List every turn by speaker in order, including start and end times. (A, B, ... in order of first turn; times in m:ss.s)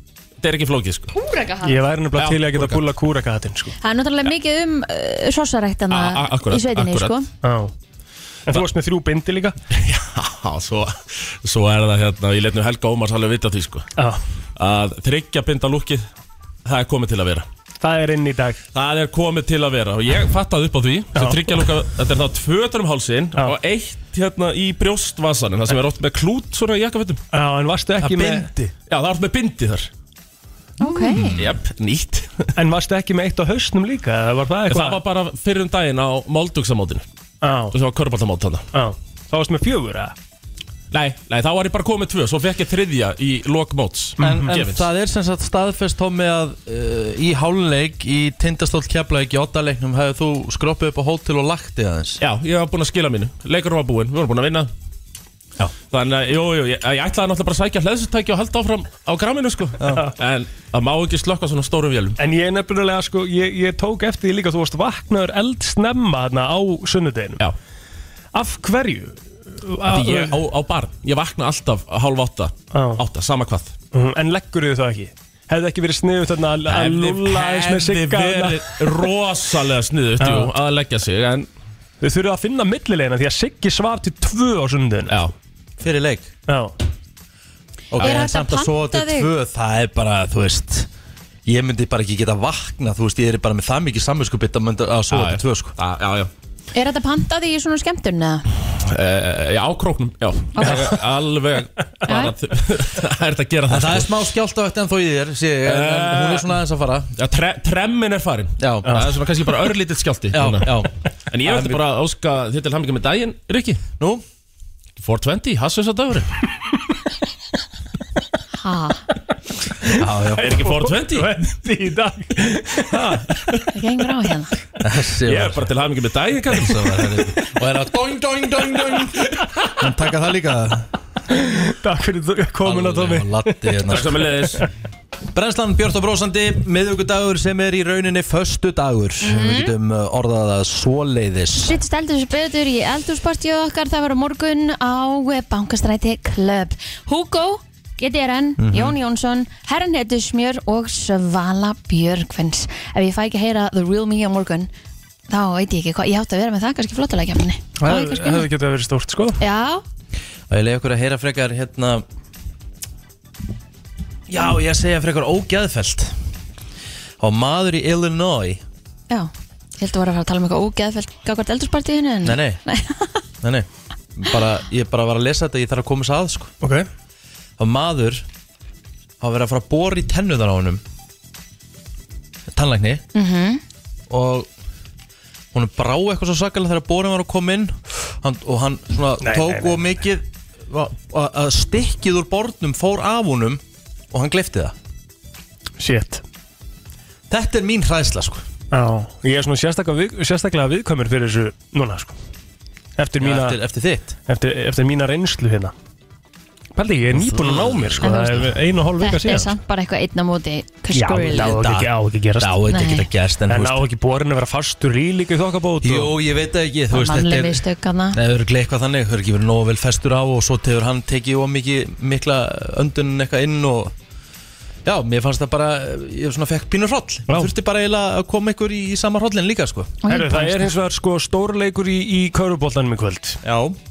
0:00.4-0:01.1 A
0:01.1-0:01.7 B
0:01.6-0:03.7 C
0:02.2-0:02.9 A
0:03.8-0:07.3 B
0:05.9-0:07.2 A
0:07.4-0:07.7 C
0:08.5-0:09.6 C
0:09.7-0:13.9 A
0:14.0-0:14.2 C
0:14.6-0:16.0 A
0:16.6-0:17.5 A
0:17.8-0:18.6 C
0:18.7-0:27.2 A
0:21.1-0:21.6 C
0:27.3-0:28.5 C
0:28.0-0:28.7 D
0:28.9-0:29.9 A
0:30.8-0:31.4 B
0:31.1-0:31.5 D
0:31.3-0:32.5 A
0:32.6-0:35.0 C
0:34.7-0:37.0 A
0:37.4-0:37.7 C
0:37.7-0:38.6 A
0:38.7-0:40.1 C
0:40.9-0:44.9 A
0:44.2-0:44.6 C
0:44.2-0:52.2 D
0:52.2-0:54.7 A
0:55.9-1:02.2 A
1:02.2-1:07.4 C
1:08.3-1:10.4 C
1:09.9-1:13.7 A
1:12.7-1:13.0 C
1:13.9-1:19.0 C
1:16.6-1:21.5 A
1:20.2-1:20.5 C
1:22.0-1:25.2 C
1:25.1-1:25.3 A
1:25.8-1:26.3 D
1:26.5-1:26.7 C
1:27.9-1:30.9 D
1:27.9-1:29.3 B
1:31.4-1:35.8 D
1:35.1-1:36.3 A
1:36.7-1:38.4 B
1:38.8-1:44.1 A
1:40.6-1:40.9 B
1:40.6-1:40.9 C
1:42.1-1:42.3 B
1:43.7-1:47.1 D
1:45.6-1:46.5 A
1:47.2-1:50.7 A
1:48.6-1:49.0 D
1:50.3-1:50.9 D
1:51.3-1:53.8 A
1:51.4-1:51.8 D
1:54.0-1:54.2 D
1:55.0-1:56.3 A
1:58.5-1:59.0 B
1:59.9-2:00.6 D
2:00.4-2:01.4 A
2:00.4-2:03.4 C
2:03.7-2:04.6 B
2:04.8-2:05.7 D
2:05.2-2:07.3 A
2:06.5-2:09.2 D
2:09.8-2:10.9 D
2:11.3-2:14.1 C
2:12.6-2:14.3 D
2:13.9-2:14.7 A
2:15.3-2:21.7 D
2:19.2-2:19.7 B
2:21.6-2:34.7 B
2:28.6-2:29.0 D
2:35.3-2:38.5 B
2:37.8-2:39.4 C
2:39.4-2:39.8 B
2:40.5-2:42.0 D
2:44.3-2:46.2 D
2:47.2-2:48.6 D
2:49.1-2:53.2 B
2:52.2-2:52.6 D
2:53.4-2:56.5 D
2:56.6-2:56.9 C
2:57.6-2:58.2 D
2:59.2-3:00.8 D
3:02.5-3:03.0 D
3:03.1-3:03.6 B
3:04.1-3:04.5 D
3:05.5-3:14.7 D
3:09.2-3:09.8 C
3:15.8-3:16.2 C
3:17.3-3:18.4 D
3:18.7-3:22.1 C
3:23.0-3:23.6 C
3:23.2-3:24.2 D
3:24.3-3:25.7 C
3:26.7-3:29.6 C
3:27.2-3:28.0 D
3:28.0-3:28.5 B
3:29.0-3:31.6 B
3:30.9-3:32.6 C
3:31.3-3:33.8 D
3:32.7-3:33.0 B
3:33.5-3:36.1 C
3:35.8-3:43.9 D
3:36.9-3:38.2 B
3:44.8-3:49.9 D
3:50.0-3:50.7 B
3:50.1-3:53.4 C
3:53.4-3:53.8 D